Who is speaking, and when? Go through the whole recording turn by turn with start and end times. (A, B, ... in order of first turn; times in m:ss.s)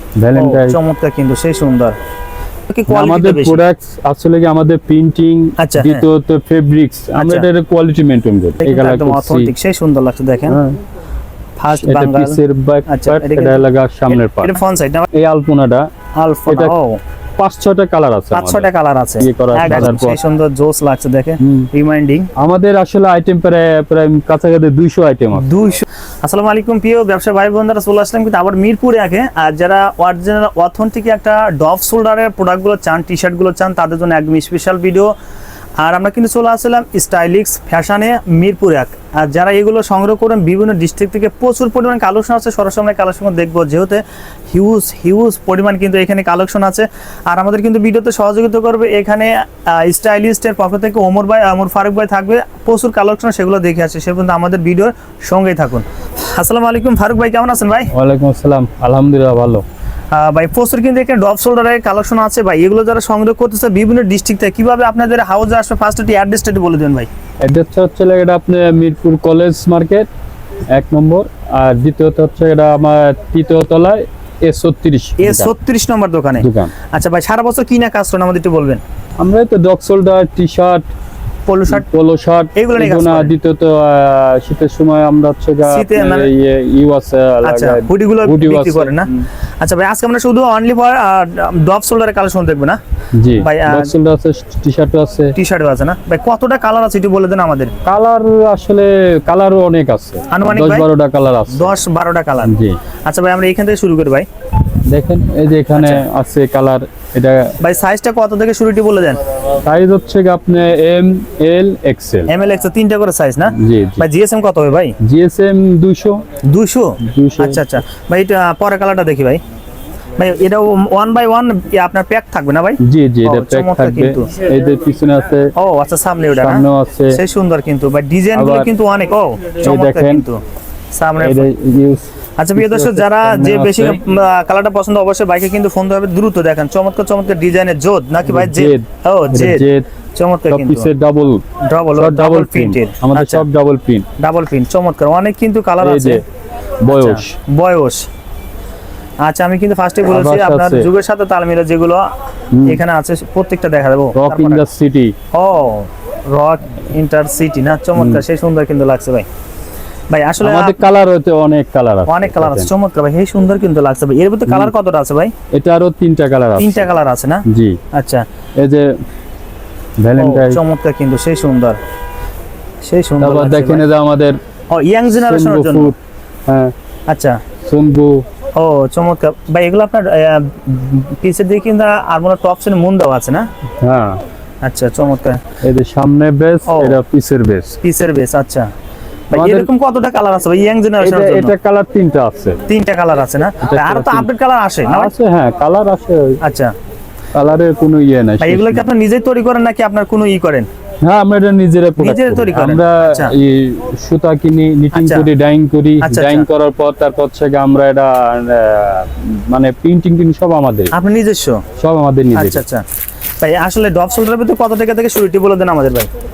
0:00.2-0:00.8 A
0:00.3-0:02.0 B
0:02.7-0:03.6 B
0:02.9-0:09.5 A
0:05.6-0:06.1 B
0:07.1-0:07.5 B
0:08.6-0:10.6 B
0:10.5-0:10.8 A
0:11.6-0:15.1 B
0:11.7-0:14.6 A
0:15.1-0:15.9 A
0:16.2-0:17.0 B
0:16.5-0:16.7 A
0:17.4-0:20.2 A
0:18.3-0:22.3 B
0:21.4-0:21.7 A
0:22.4-0:25.5 A
0:25.4-0:35.1 B
0:35.8-0:57.9 B
0:57.9-0:59.6 A
1:00.1-1:07.1 B
1:07.4-1:10.1 A
1:10.7-1:15.5 A
1:15.2-1:18.8 B
1:16.4-1:16.7 A
1:19.2-1:20.9 A
1:21.4-1:21.8 B
1:21.7-1:29.3 A
1:22.5-1:23.3 B
1:25.6-1:26.3 B
1:27.4-1:29.1 B
1:29.6-1:32.8 B
1:33.1-1:35.4 A
1:33.3-1:33.9 B
1:35.3-1:37.7 B
1:37.8-1:41.8 A
1:40.3-1:40.9 B
1:41.5-1:44.3 B
1:42.4-1:42.8 A
1:44.9-1:47.5 A
1:45.7-1:46.0 B
1:47.6-1:49.2 B
1:49.6-1:52.3 A
1:52.3-1:55.0 B
1:53.5-1:54.0 A
1:55.0-1:56.2 A
1:56.4-1:59.4 B
1:57.0-1:57.6 A
2:00.2-2:04.3 B
2:02.8-2:05.5 A
2:05.6-2:11.5 B
2:06.3-2:07.2 A
2:08.3-2:08.7 A
2:09.6-2:10.2 A
2:11.2-2:14.0 A
2:12.4-2:20.9 B
2:18.2-2:19.8 A
2:20.5-2:21.4 A
2:21.6-2:23.5 B
2:21.9-2:24.0 A
2:24.2-2:26.2 B
2:25.8-2:26.2 A
2:26.8-2:27.4 A
2:26.9-2:28.1 B
2:29.2-2:32.1 B
2:30.1-2:30.9 A
2:32.5-2:32.8 A
2:32.6-2:34.6 B
2:34.1-2:35.1 A
2:35.3-2:39.3 B
2:38.0-2:38.2 A
2:40.1-2:40.8 B
2:40.4-2:42.7 A
2:42.1-2:45.3 B
2:45.5-2:46.9 A
2:46.6-2:48.2 B
2:47.4-2:47.8 A
2:48.6-2:48.9 A
2:50.0-2:50.6 A
2:50.2-2:51.8 B
2:52.8-2:53.8 B
2:53.2-2:54.4 A
2:54.7-2:55.9 B
2:55.1-2:55.9 A
2:56.5-2:56.7 A
2:57.1-2:57.4 B
2:57.6-2:58.2 A
2:58.6-3:03.5 B
3:03.8-3:04.2 A
3:04.6-3:05.4 B
3:05.6-3:07.8 A
3:06.6-3:07.0 B
3:07.8-3:08.7 B
3:09.3-3:11.5 B
3:09.3-3:09.7 A
3:11.0-3:12.6 A
3:12.7-3:15.1 B
3:13.6-3:14.3 A
3:14.8-3:16.4 A
3:16.4-3:16.7 B
3:17.3-3:18.8 A
3:18.4-3:20.7 B
3:21.0-3:30.9 A
3:22.0-3:23.3 B
3:24.9-3:25.3 B
3:26.0-3:26.5 B
3:30.9-3:31.6 B
3:31.8-3:32.6 A
3:32.3-3:32.8 B
3:33.4-3:36.1 B